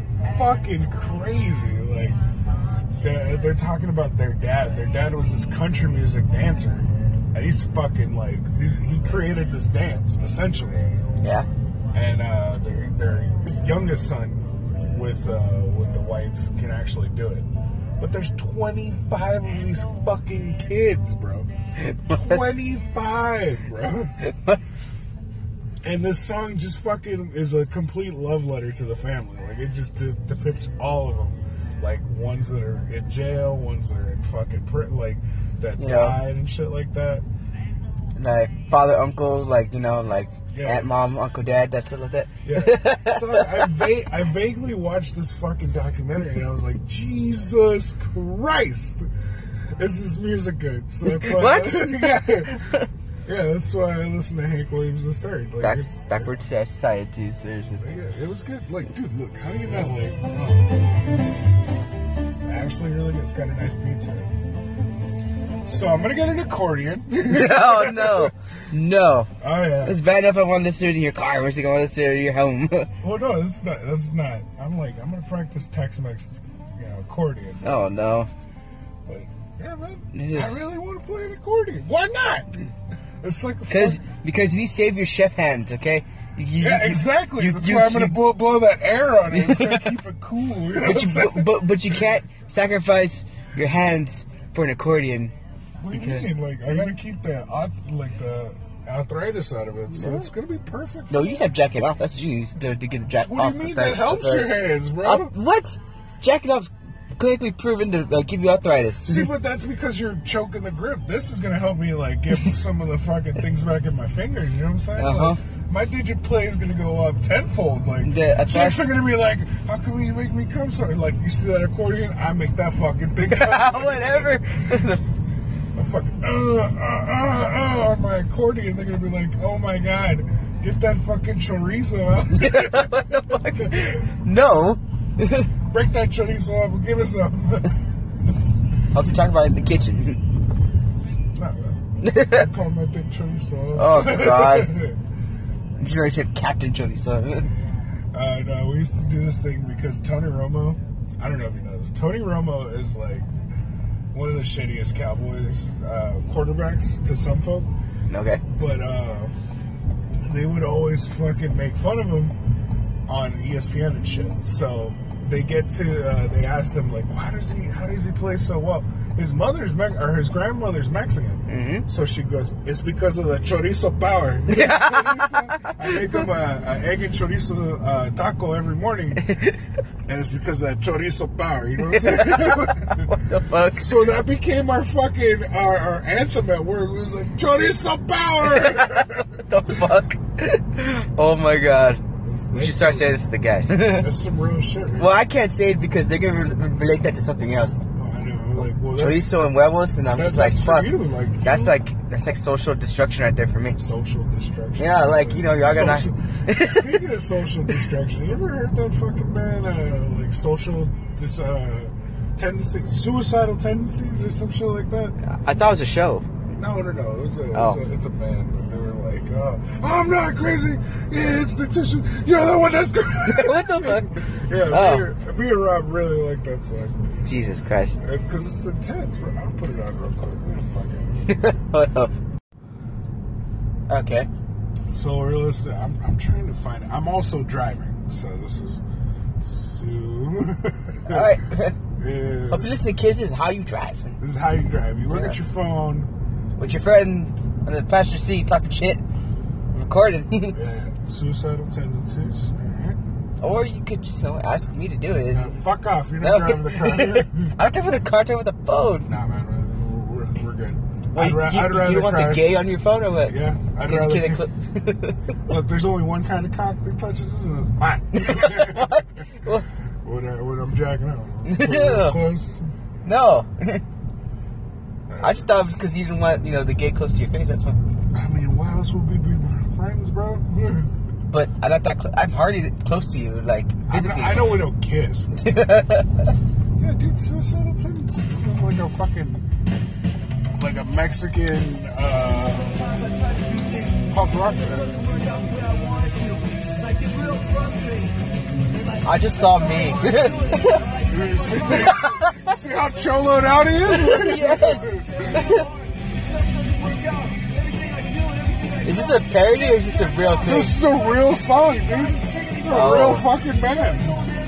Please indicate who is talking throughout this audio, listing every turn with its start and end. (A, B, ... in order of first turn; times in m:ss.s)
0:00.2-0:02.2 A
0:03.0-0:11.0 A
0:11.2-0:11.5 B
0:11.9-0:17.5 A
0:18.0-0:21.5 A
0:21.9-0:22.4 B
0:22.1-0:24.2 A
0:24.3-0:24.6 B
0:25.8-0:37.2 A
0:35.8-0:36.2 B
0:38.2-0:43.7 B
0:40.5-0:40.9 A
0:42.4-0:49.1 A
0:49.7-0:56.3 A
0:51.1-0:52.9 B
0:55.6-0:57.8 B
0:57.8-1:00.8 A
1:02.4-1:04.4 A
1:05.6-1:08.3 A
1:07.2-1:09.3 B
1:09.4-1:10.0 A
1:09.8-1:12.9 B
1:13.0-1:17.9 A
1:17.6-1:18.3 B
1:19.1-1:22.7 A
1:20.1-1:20.7 B
1:23.2-1:24.0 A
1:23.7-1:28.3 B
1:26.6-1:31.5 A
1:29.3-1:29.9 B
1:30.8-1:35.3 B
1:35.8-1:41.3 A
1:35.9-1:36.9 B
1:39.9-1:40.3 B
1:41.1-1:49.3 B
1:43.2-1:45.3 A
1:49.0-2:04.9 A
1:55.0-1:55.4 B
1:58.0-1:58.9 B
2:03.2-2:05.0 B
2:05.7-2:14.0 A
2:12.3-2:15.5 B
2:15.7-2:17.8 A
2:18.9-2:20.2 B
2:21.3-2:25.0 A
2:22.0-2:22.5 B
2:23.8-2:24.7 B
2:25.8-2:27.5 B
2:27.6-2:33.3 A
2:34.1-2:37.7 A
2:38.1-2:38.4 B
2:38.5-2:39.3 A
2:40.2-2:42.4 A
2:43.1-2:59.3 A
2:51.5-2:51.9 B
2:54.5-2:56.2 B
2:59.2-2:59.6 B
3:00.1-3:03.1 A
3:01.8-3:04.0 B
3:03.7-3:09.3 A
3:08.4-3:14.1 B
3:12.2-3:13.2 A
3:13.7-3:15.2 A
3:15.0-3:17.8 B
3:18.0-3:19.4 A
3:18.9-3:23.8 B
3:20.1-3:21.8 A
3:23.8-3:35.2 A
3:24.8-3:27.0 B
3:35.2-3:36.3 B
3:36.5-3:47.2 A
3:37.5-3:37.8 B
3:43.2-3:45.1 B
3:47.2-3:48.0 B
3:48.0-3:51.4 A
3:51.3-3:52.2 B
3:53.9-3:54.3 B
3:54.9-3:58.8 A
3:59.4-4:01.4 A
4:01.1-4:01.8 B
4:02.0-4:02.7 A
4:02.5-4:04.2 B
4:04.2-4:06.1 A
4:05.1-4:05.4 B
4:06.6-4:09.0 B
4:09.7-4:10.6 B
4:10.5-4:13.0 A
4:13.4-4:15.6 B
4:15.3-4:17.6 A
4:16.2-4:19.1 B
4:19.1-4:22.5 A
4:21.2-4:25.2 B
4:23.3-4:24.5 A
4:25.5-4:32.7 A
4:28.1-4:29.6 B
4:31.4-4:32.2 B
4:33.0-4:33.8 B
4:35.1-4:35.5 A
4:35.2-4:37.8 B
4:38.1-4:40.9 A
4:41.3-4:44.7 B
4:43.9-4:45.6 A
4:45.4-4:46.3 B
4:46.8-4:49.5 A
4:50.6-4:53.0 A
4:54.1-4:55.3 A
4:59.0-5:00.9 B
5:01.1-5:05.5 A
5:01.7-5:02.5 B
5:03.9-5:05.7 B
5:08.8-5:10.8 B
5:10.4-5:14.2 A
5:12.7-5:13.3 B